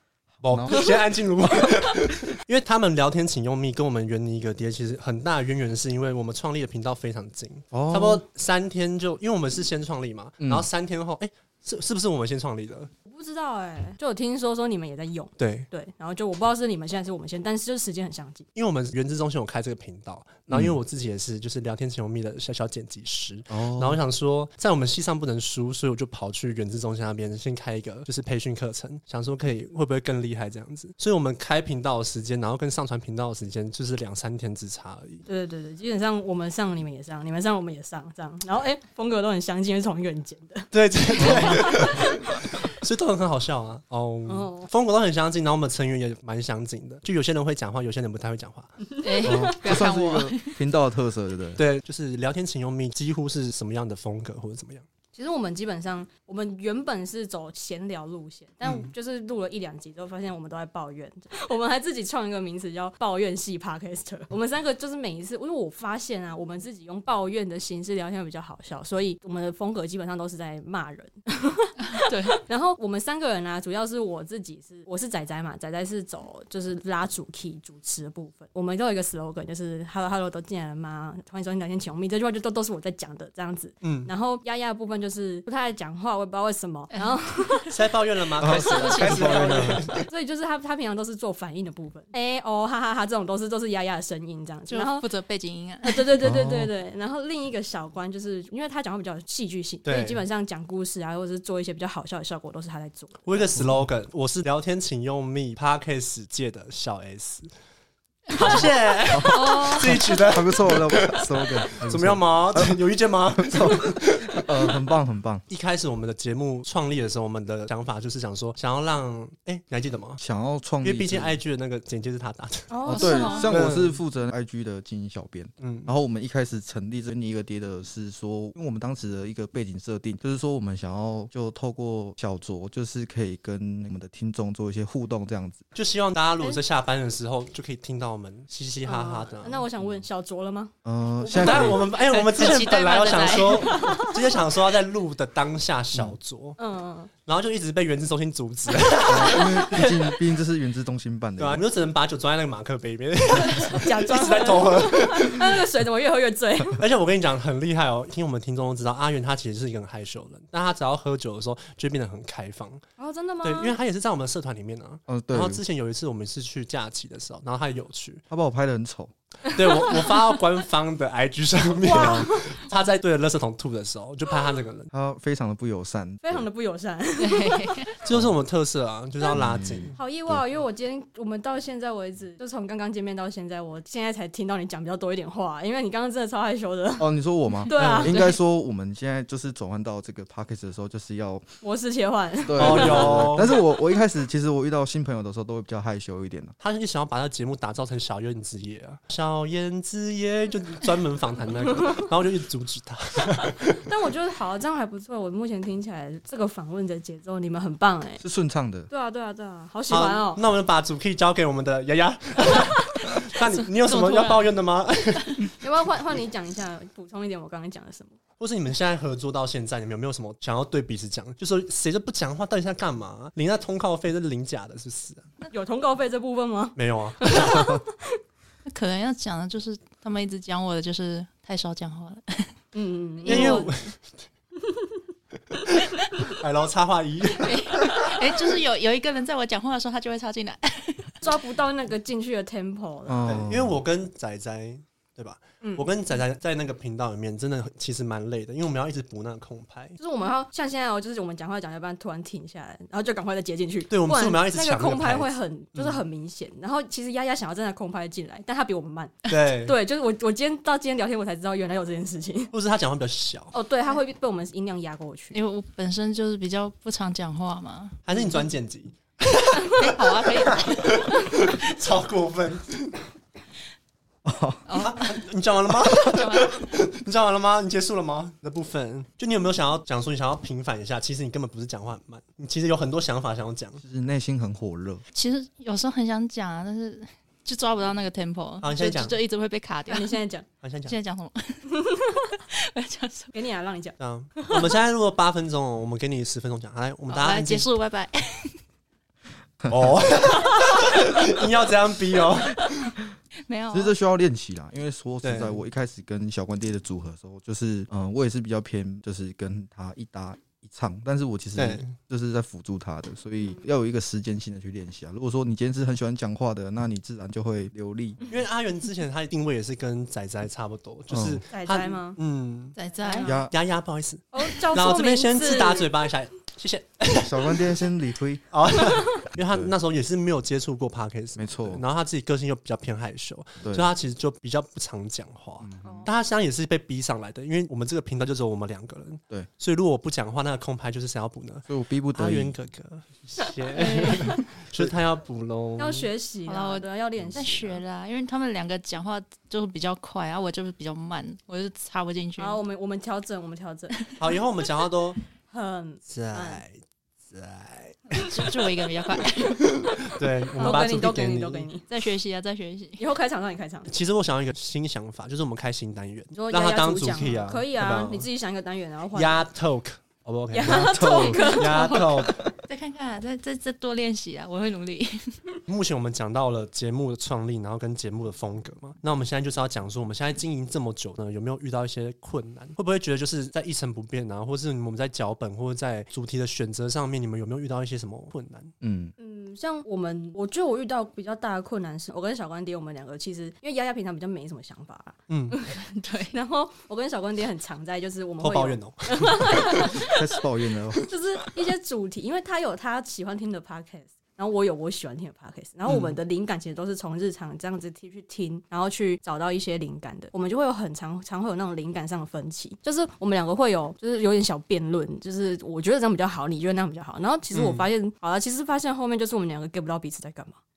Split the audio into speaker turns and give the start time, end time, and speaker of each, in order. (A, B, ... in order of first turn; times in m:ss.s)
0:00.4-0:01.0 A
0:00.4-0:12.9 B
0:07.7-0:08.2 A
0:10.4-0:10.7 A
0:13.1-0:18.4 C
0:15.4-0:15.7 B
0:18.5-0:35.2 B
0:20.5-0:20.8 A
0:23.5-0:24.0 A
0:35.2-0:41.8 C
0:40.7-0:48.8 B
0:41.2-0:41.6 A
0:44.2-0:44.7 C
0:48.8-0:49.8 C
0:49.0-0:50.5 D
0:49.2-0:51.6 A
0:51.6-0:54.8 B
0:55.1-1:27.8 C
0:58.6-0:58.9 B
1:12.0-1:12.4 D
1:23.8-1:24.1 B
1:26.9-1:27.6 D
1:27.7-1:30.0 B
1:28.4-1:30.0 A
1:28.4-1:29.8 D
1:30.0-1:35.1 C
1:34.7-1:36.1 D
1:35.8-1:43.5 C
1:36.2-1:36.7 A
1:39.8-1:40.2 B
1:43.2-1:47.5 B
1:43.6-1:43.8 A
1:48.3-1:54.4 B
1:49.1-1:52.8 A
1:49.2-1:50.0 D
1:53.4-1:55.4 A
1:55.5-2:00.2 B
2:00.2-2:01.4 A
2:00.8-2:04.0 B
2:02.7-2:03.5 C
2:02.8-2:15.6 A
2:02.9-2:03.5 D
2:05.6-2:05.9 B
2:15.7-2:19.7 B
2:18.8-2:20.7 C
2:20.8-2:21.8 A
2:21.2-2:26.6 B
2:21.6-2:23.8 D
2:23.6-2:24.1 C
2:26.6-2:27.1 C
2:27.2-2:30.1 B
2:29.1-2:31.6 A
2:31.4-2:35.5 B
2:33.5-2:36.8 C
2:36.8-2:42.8 B
2:43.0-2:43.8 C
2:43.4-2:48.2 B
2:45.1-2:45.6 A
2:48.3-2:49.1 A
2:49.5-2:54.9 B
2:51.8-2:52.5 C
2:52.0-2:52.3 A
2:54.9-2:56.4 A
2:56.2-2:57.9 C
2:57.2-2:57.9 D
2:58.0-3:00.0 B
2:59.3-3:00.4 A
3:00.0-3:07.1 C
3:07.0-3:11.4 A
3:07.6-3:08.3 C
3:07.7-3:08.2 B
3:11.6-3:13.5 C
3:12.4-3:16.6 A
3:12.6-3:13.5 B
3:16.6-3:23.6 B
3:23.8-3:28.2 C
3:28.2-3:28.9 A
3:28.9-3:30.4 C
3:29.9-3:35.5 B
3:33.8-3:34.5 D
3:35.6-3:38.1 C
3:38.4-3:45.3 B
3:45.5-3:48.2 C
3:46.8-3:47.6 B
3:48.6-3:52.5 D
3:52.7-3:53.7 C
3:53.2-3:53.6 D
3:53.2-3:53.9 B
3:54.6-3:55.0 C
3:55.5-3:57.6 B
3:57.4-4:01.2 D
4:01.2-4:03.3 C
4:03.1-4:03.8 A
4:03.2-4:10.0 B
4:05.6-4:05.9 C
4:10.0-4:22.5 C
4:13.9-4:16.0 B
4:19.3-4:19.7 B
4:22.5-4:23.6 B
4:23.5-4:25.4 C
4:25.3-4:28.4 D
4:28.0-4:29.9 B
4:29.8-4:31.0 D
4:30.8-4:33.0 B
4:34.2-4:34.7 A
4:34.7-4:35.2 D
4:34.8-4:43.8 B
4:36.0-4:36.7 D
4:43.8-4:45.0 A
4:45.1-4:50.2 D
4:48.6-4:49.2 B
4:49.9-4:50.5 C
4:50.6-4:51.0 B
4:50.8-4:53.3 D
4:53.3-4:54.7 C
4:54.0-4:57.7 B
4:57.1-4:58.6 D
4:59.7-5:02.9 B
5:03.5-5:03.9 D
5:03.7-5:18.2 A
5:05.2-5:05.6 B
5:11.6-5:11.9 B
5:18.3-5:22.8 B
5:21.1-5:21.4 A
5:21.5-5:22.2 C
5:22.8-5:23.4 D
5:23.0-5:23.3 C
5:23.2-5:23.5 A
5:23.5-5:27.6 B
5:24.3-5:25.9 C
5:27.1-5:28.5 A
5:28.5-5:46.1 B
5:29.4-5:29.7 A
5:31.4-5:31.8 A
5:33.6-5:33.9 A
5:35.6-5:36.1 A
5:35.8-5:36.1 C
5:41.7-5:42.5 A
5:43.7-5:44.4 C
5:45.8-5:47.6 C
5:46.4-5:52.6 D
5:47.2-5:47.8 A
5:52.4-5:54.0 C
5:54.2-5:55.2 B
5:55.5-5:56.6 C
5:56.0-5:58.3 B
5:58.1-6:00.0 D
6:00.0-6:01.7 B
6:00.6-6:01.9 C
6:01.9-6:03.0 D
6:03.0-6:03.9 C
6:03.9-6:08.3 B
6:06.3-6:09.5 C
6:09.1-6:12.5 B
6:10.5-6:12.3 C
6:10.6-6:11.7 A
6:11.3-6:15.3 D
6:15.7-6:28.7 B
6:28.8-6:29.1 A
6:29.2-6:35.8 C
6:35.3-6:35.6 B
6:35.7-6:36.4 D
6:36.3-6:40.1 C
6:38.4-6:39.5 B
6:39.7-6:41.1 A
6:41.0-7:00.6 C
6:45.8-6:46.1 B
6:57.5-6:57.9 B